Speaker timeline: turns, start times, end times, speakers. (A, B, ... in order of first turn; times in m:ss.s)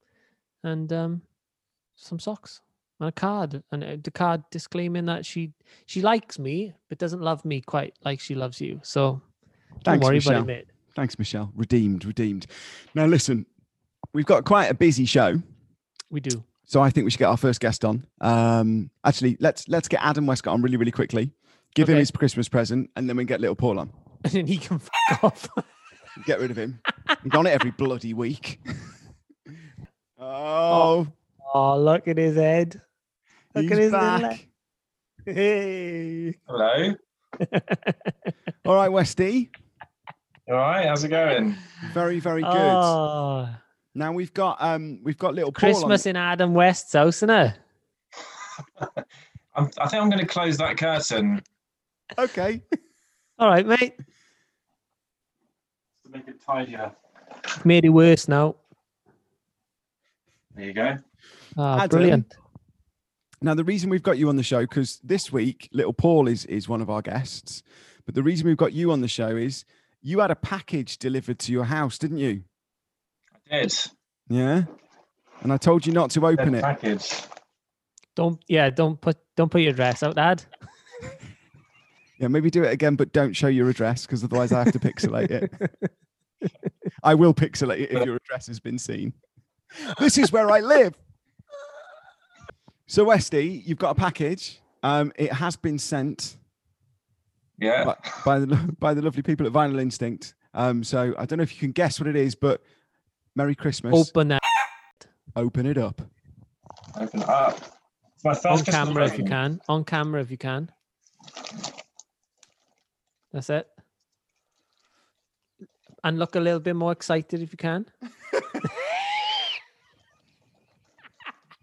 0:00.6-0:01.3 A
0:02.0-0:09.2 A
0:09.8-0:13.5 B
0:09.8-0:10.7 A
0:14.1-0:15.4 B
0:16.1-0:16.4 A
0:16.7-0:23.9 B
0:21.8-0:22.1 A
0:24.2-0:25.6 A
0:26.2-0:28.6 B
0:30.2-0:31.1 B
0:31.4-0:32.8 A
0:33.5-0:34.4 A
0:33.5-0:34.4 B
0:35.3-0:36.4 A
0:36.5-0:37.0 C
0:37.4-0:38.1 A
0:38.6-0:39.5 B
0:40.5-0:41.6 C
0:41.8-0:43.0 B
0:42.4-0:43.6 A
0:43.9-0:46.0 B
0:45.5-0:47.6 A
0:49.5-0:51.4 C
0:52.2-0:52.6 B
0:53.4-0:54.0 A
0:56.0-0:56.9 C
0:57.6-0:58.6 A
1:00.5-1:01.0 C
1:01.6-1:02.3 A
1:01.7-1:02.3 B
1:03.4-1:12.4 B
1:13.4-1:13.9 C
1:14.3-1:14.7 B
1:15.4-1:16.7 B
1:16.4-1:17.3 C
1:18.2-1:20.4 A
1:22.2-1:25.5 B
1:27.0-1:29.2 B
1:29.8-1:31.0 B
1:32.9-1:36.4 B
1:37.6-1:38.1 C
1:37.8-1:42.6 B
1:43.3-1:44.1 B
1:43.9-1:44.4 A
1:45.4-1:46.1 B
1:46.9-1:47.7 C
1:48.2-1:49.3 C
1:48.5-1:50.7 A
1:53.3-1:53.7 A
1:56.0-1:57.9 A